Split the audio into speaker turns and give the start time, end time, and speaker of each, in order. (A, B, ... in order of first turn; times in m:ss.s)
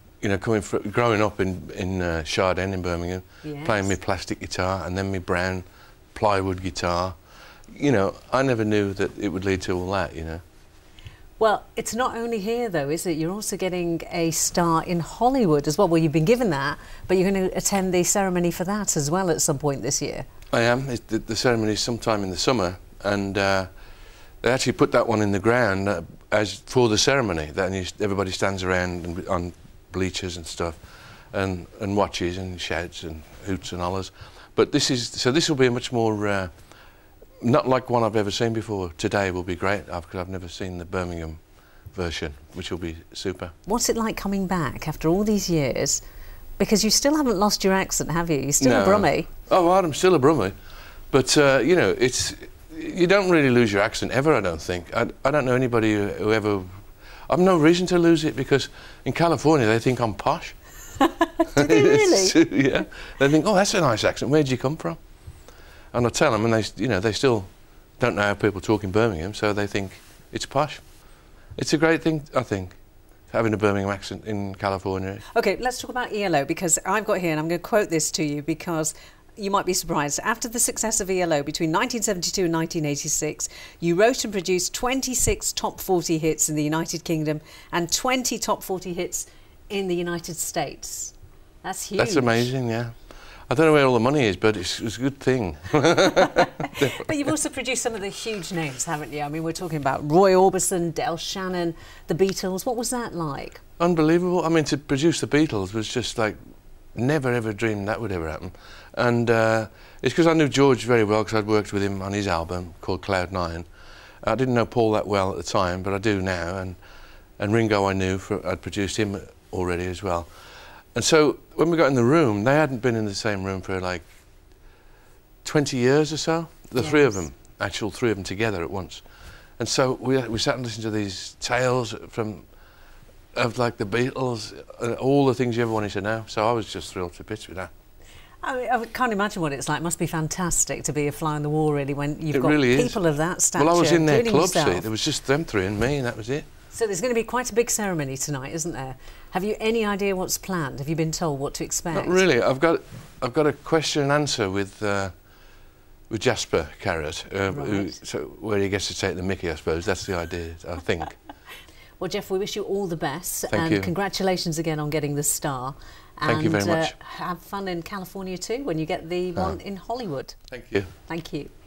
0:00.2-0:07.2 A
0:03.4-0:03.9 B
0:07.7-0:10.4 A
0:11.4-0:20.2 B
0:20.5-0:23.7 A
0:24.4-0:30.8 A
0:31.3-0:36.5 A
0:37.4-0:41.4 A
0:41.9-0:43.5 A
0:43.6-0:46.0 B
0:46.6-0:49.3 B
0:48.6-0:50.5 A
0:51.1-1:00.6 A
1:01.0-1:02.4 B
1:01.5-1:05.0 A
1:05.9-1:10.8 A
1:11.6-1:12.8 A
1:13.3-1:15.2 A
1:15.3-1:32.5 B
1:32.0-1:32.9 A
1:33.5-1:37.1 A
1:36.2-1:43.6 B
1:43.8-1:46.4 A
1:46.9-1:53.7 A
1:54.2-1:56.8 A
1:57.4-2:00.3 A
2:00.9-2:04.0 A
2:05.4-2:09.0 A
2:06.8-2:07.2 B
2:09.6-2:12.5 A
2:13.3-2:17.7 A
2:18.4-2:24.9 B
2:22.3-2:23.0 A
2:23.5-2:26.5 A
2:26.7-2:32.2 B
2:31.9-2:35.2 A
2:36.1-2:41.2 A
2:37.5-2:38.0 B
2:42.0-2:50.4 B
2:43.5-2:43.9 A
2:46.2-2:46.9 A
2:50.5-2:50.9 A
2:51.1-2:51.5 B